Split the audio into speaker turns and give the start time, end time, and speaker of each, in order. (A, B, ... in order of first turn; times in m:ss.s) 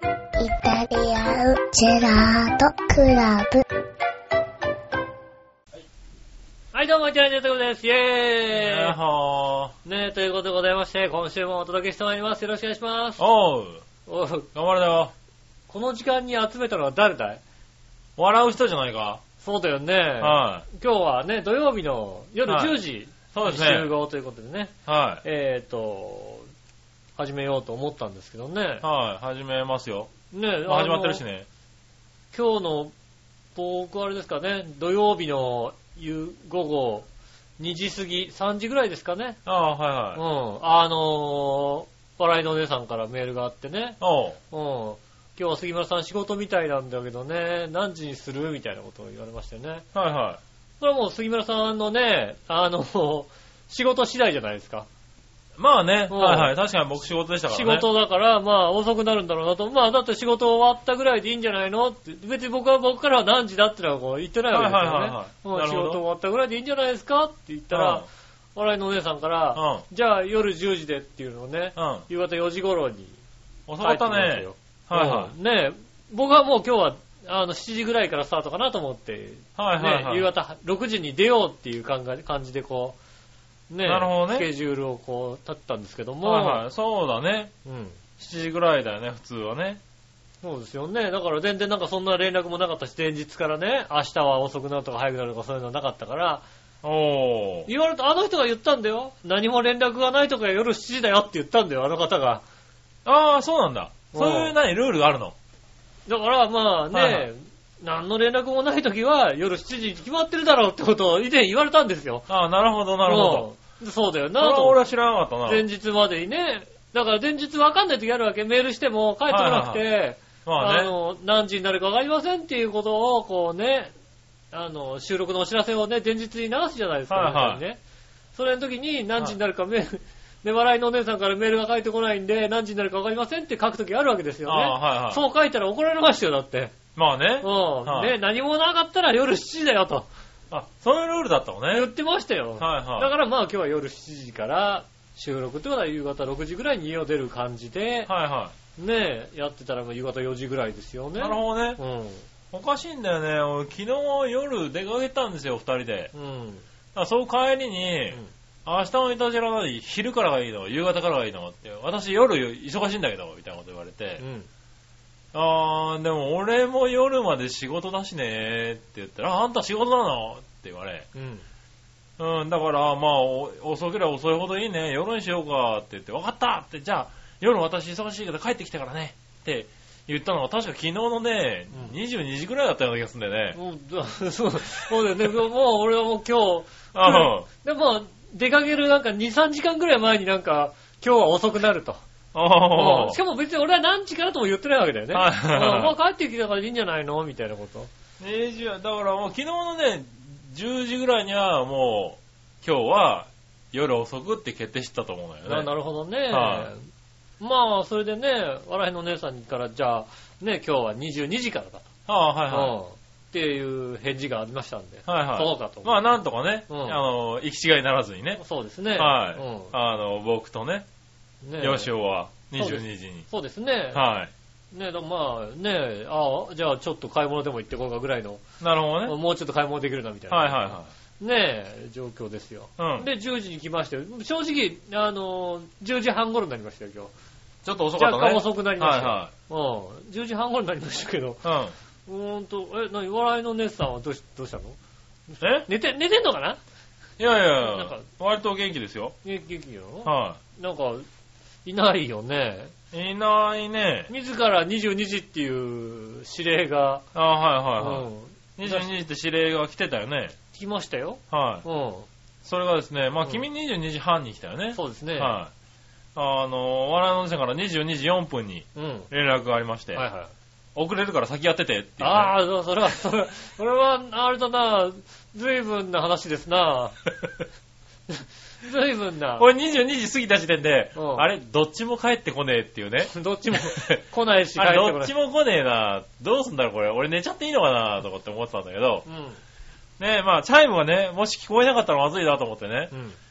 0:00.4-0:03.6 A
0:06.7-0:09.0 B
0:08.5-0:09.7 C
0:09.8-0:13.2 B
0:13.2-0:13.8 C
0:14.0-0:14.5 B
0:14.5-0:15.1 C
0:15.7-0:17.4 B
0:18.2-0:19.2 C
0:19.4-0:26.5 B
0:20.2-0:20.6 C
0:22.4-0:22.8 C
0:23.3-0:23.9 C
0:24.9-0:25.2 C
0:27.2-0:28.8 B
0:28.8-0:30.1 C
0:30.3-0:31.2 B
0:30.6-0:31.4 C
0:32.3-0:32.9 B
0:33.5-0:37.0 B
0:37.6-0:39.4 B
0:39.4-0:40.2 C
0:40.1-0:44.0 B
0:44.0-0:44.4 C
0:44.5-0:49.8 B
0:49.9-0:50.4 C
0:50.8-0:54.9 B
0:55.6-0:57.8 C
0:56.1-0:56.5 B
0:57.5-1:13.2 B
1:04.5-1:06.0 C
1:07.7-1:08.0 C
1:09.5-1:09.8 C
1:11.8-1:12.0 C
1:13.7-1:15.3 C
1:13.8-1:23.0 B
1:19.6-1:20.3 C
1:23.7-1:26.6 B
1:23.8-1:24.5 C
1:26.2-1:27.5 C
1:27.6-1:28.0 B
1:28.2-1:29.8 C
1:30.4-1:36.4 B
1:36.8-1:37.7 C
1:37.6-1:42.4 B
1:43.0-1:45.3 C
1:44.1-1:44.5 B
1:46.1-1:52.3 B
1:46.9-1:47.3 C
1:52.3-1:53.4 C
1:53.0-1:54.8 B
1:54.4-1:55.6 C
1:55.4-2:03.9 B
1:59.3-1:59.9 C
2:00.4-2:00.9 C
2:04.5-2:07.8 B
2:07.1-2:07.6 C
2:08.3-2:16.7 B
2:14.4-2:15.2 C
2:16.9-2:18.1 C
2:17.4-2:20.1 B
2:20.5-2:21.9 C
2:21.7-2:28.1 B
2:22.6-2:23.1 C
2:28.1-2:28.5 C
2:28.8-2:32.3 B
2:31.2-2:31.8 C
2:32.5-2:36.1 C
2:36.1-2:36.6 B
2:36.9-2:44.2 C
2:44.2-2:44.5 B
2:45.3-2:51.1 C
2:51.1-2:51.4 B
2:52.2-3:03.6 C
3:03.5-3:12.0 B
3:06.9-3:07.5 C
3:12.3-3:13.2 C
3:12.7-3:17.9 B
3:15.1-3:15.9 C
3:18.2-3:25.7 C
3:25.5-3:26.9 B
3:26.3-3:26.7 C
3:27.4-3:31.9 B
3:32.1-3:32.8 C
3:32.5-3:36.0 B
3:35.1-3:38.4 C
3:36.7-3:37.0 B
3:38.4-3:39.7 B
3:39.0-3:40.8 C
3:41.4-3:41.9 B
3:41.6-3:43.2 C
3:42.6-3:44.0 B
3:43.9-3:44.3 C
3:44.7-3:48.4 B
3:48.6-3:49.1 C
3:49.0-3:57.1 B
3:50.3-3:50.9 C
3:52.8-3:53.1 C
3:57.6-3:59.3 C
3:58.0-4:01.4 B
4:01.4-4:01.7 C
4:02.1-4:04.8 B
4:05.3-4:06.6 B
4:05.4-4:05.7 C
4:07.2-4:09.1 C
4:07.6-4:08.0 B
4:09.2-4:11.0 B
4:10.0-4:10.4 C
4:11.6-4:12.7 B
4:12.9-4:14.1 C
4:14.1-4:17.0 B
4:17.1-4:20.3 C
4:17.8-4:18.9 B
4:20.5-4:22.1 B
4:21.3-4:21.6 C
4:22.4-4:25.5 C
4:23.2-4:23.4 B
4:24.7-4:25.4 B
4:26.1-4:30.0 C
4:28.8-4:29.1 B
4:29.9-4:30.3 B
4:30.7-4:32.3 C
4:32.0-4:37.0 B
4:38.1-4:39.5 B
4:39.4-4:44.0 C
4:40.9-4:41.3 B
4:43.0-4:45.1 B
4:44.6-4:49.0 C
4:49.0-4:49.4 B
4:50.0-4:52.9 C
4:52.9-4:53.2 B